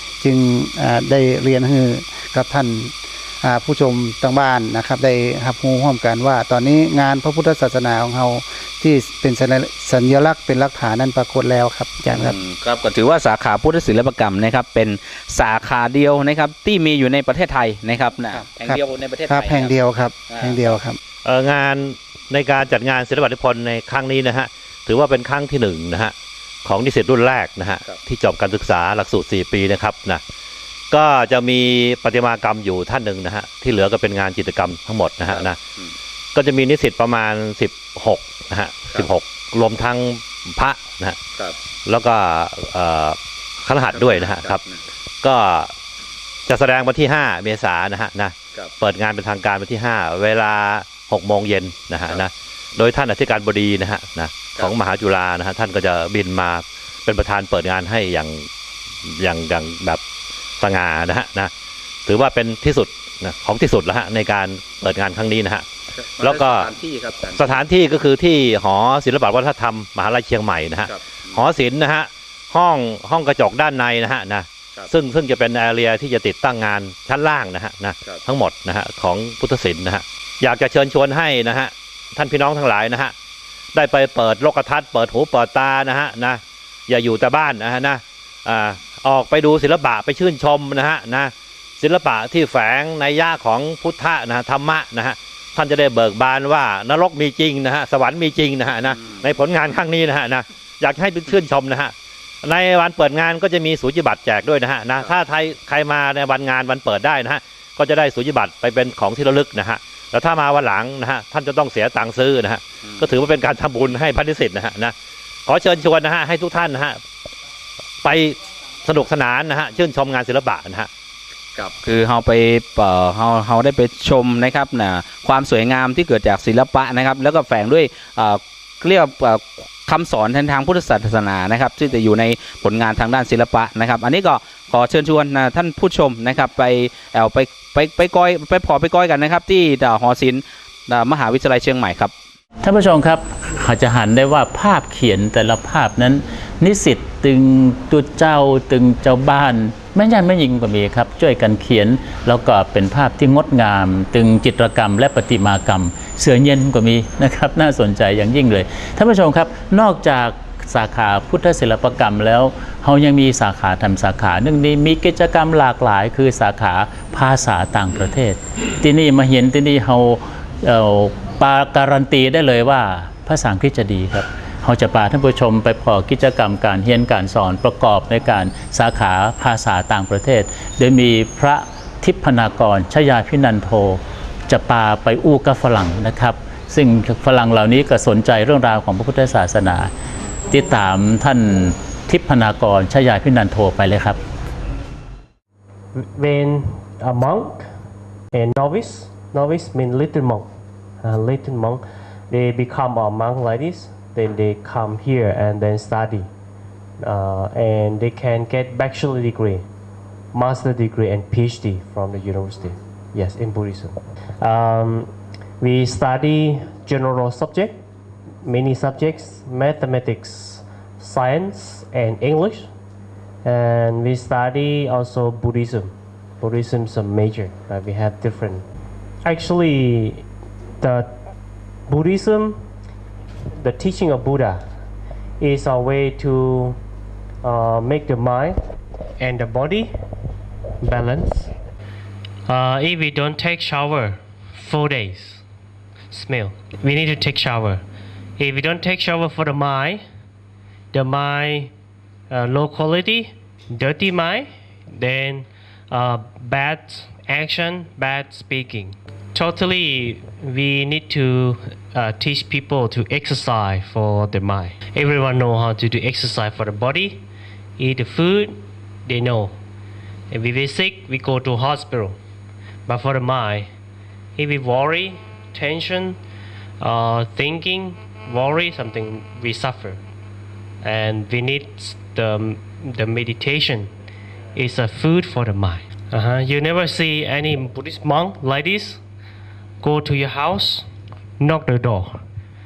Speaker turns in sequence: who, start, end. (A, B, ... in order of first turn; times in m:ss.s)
0:00.2-0:12.4 A
0:12.1-0:19.8 B
0:18.4-0:21.0 A
0:20.3-0:20.8 B
0:21.2-0:26.1 C
0:26.6-0:30.2 C
0:30.9-0:35.6 C
0:35.2-0:35.9 B
0:36.4-0:41.2 C
0:41.9-0:44.6 C
0:43.9-0:44.8 B
0:45.2-0:45.7 C
0:46.5-0:58.5 C
0:59.1-1:00.0 C
1:00.6-1:01.5 C
1:02.1-1:05.6 C
1:05.9-1:07.6 B
1:06.2-1:06.7 C
1:07.4-1:23.1 C
1:10.8-1:11.4 B
1:23.7-1:54.9 C
1:39.0-1:39.2 B
1:52.8-1:53.1 B
1:55.5-1:57.0 C
1:58.0-2:00.9 C
2:01.6-2:22.1 B
2:22.6-3:09.9 D
3:10.5-3:14.2 D
3:16.0-3:17.7 E
3:18.3-3:20.5 E
3:21.0-3:26.3 E
3:27.0-3:29.6 E
3:30.3-3:37.8 E
3:38.4-3:42.7 E
3:43.4-3:48.7 E
3:49.2-3:50.2 E
3:50.8-3:51.1 E
3:51.9-3:52.6 E
3:53.6-3:54.6 E
3:55.4-3:56.8 E
3:57.4-3:58.6 E
3:59.2-3:59.9 E
4:00.8-4:01.5 E
4:02.5-4:05.4 E
4:06.1-4:07.8 E
4:08.4-4:10.0 E
4:10.9-4:11.7 E
4:12.3-4:27.2 E
4:27.8-4:29.6 E
4:30.3-4:32.2 E
4:32.9-4:33.7 E
4:34.4-4:36.2 E
4:36.8-4:40.0 E
4:40.8-4:43.9 E
4:44.6-4:49.0 E
4:49.8-4:50.9 E
4:51.4-4:52.2 E